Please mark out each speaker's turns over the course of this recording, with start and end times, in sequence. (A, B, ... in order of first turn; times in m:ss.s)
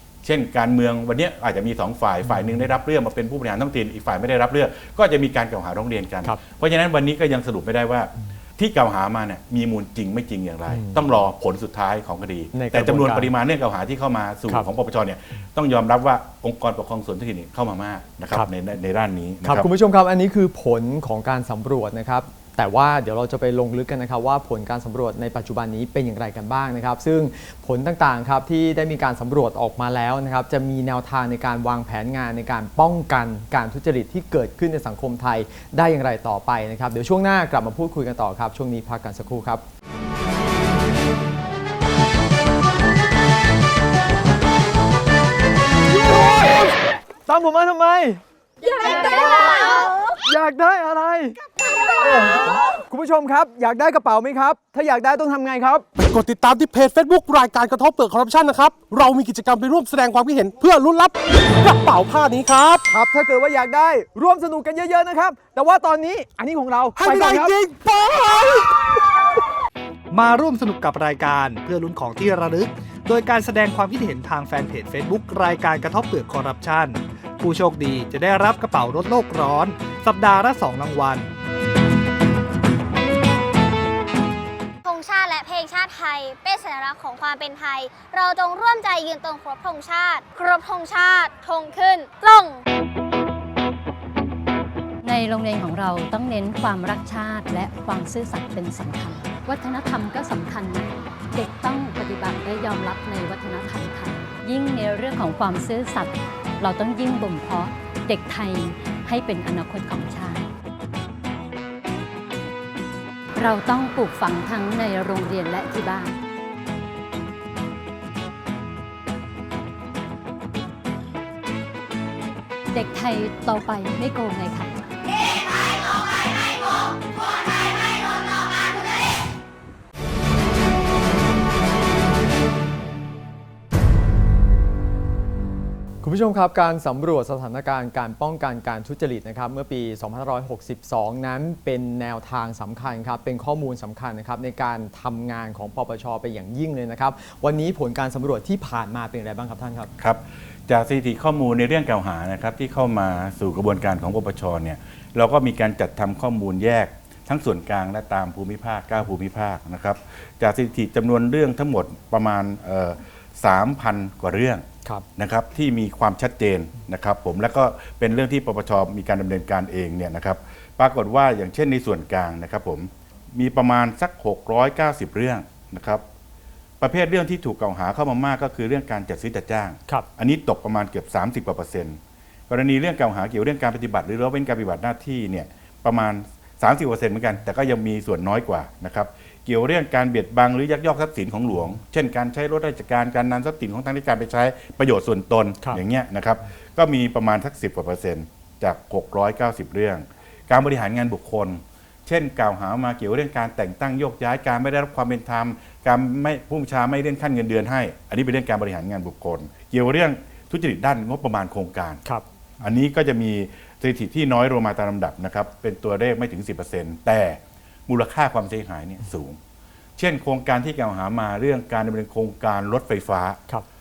0:00.2-0:19.7 A
0:10.7-0:11.0 B
0:12.5-0:13.3 B
0:19.4-0:39.6 B
0:46.1-0:46.7 B
0:47.3-0:48.2 B
0:48.6-0:50.2 C
0:48.9-0:49.6 B
0:50.2-0:51.4 B
0:51.6-0:52.6 C
0:52.0-0:55.8 B
0:56.0-1:02.8 D
1:02.9-1:07.5 B
1:07.0-1:09.1 D
1:10.1-1:21.3 E
1:24.8-1:32.6 C
1:35.0-1:50.5 F
1:53.4-1:56.2 F
2:02.7-2:04.9 F
2:16.0-2:29.9 B
2:30.0-2:56.0 A
2:56.8-3:32.0 A
3:32.6-3:39.4 A
3:40.0-3:43.4 A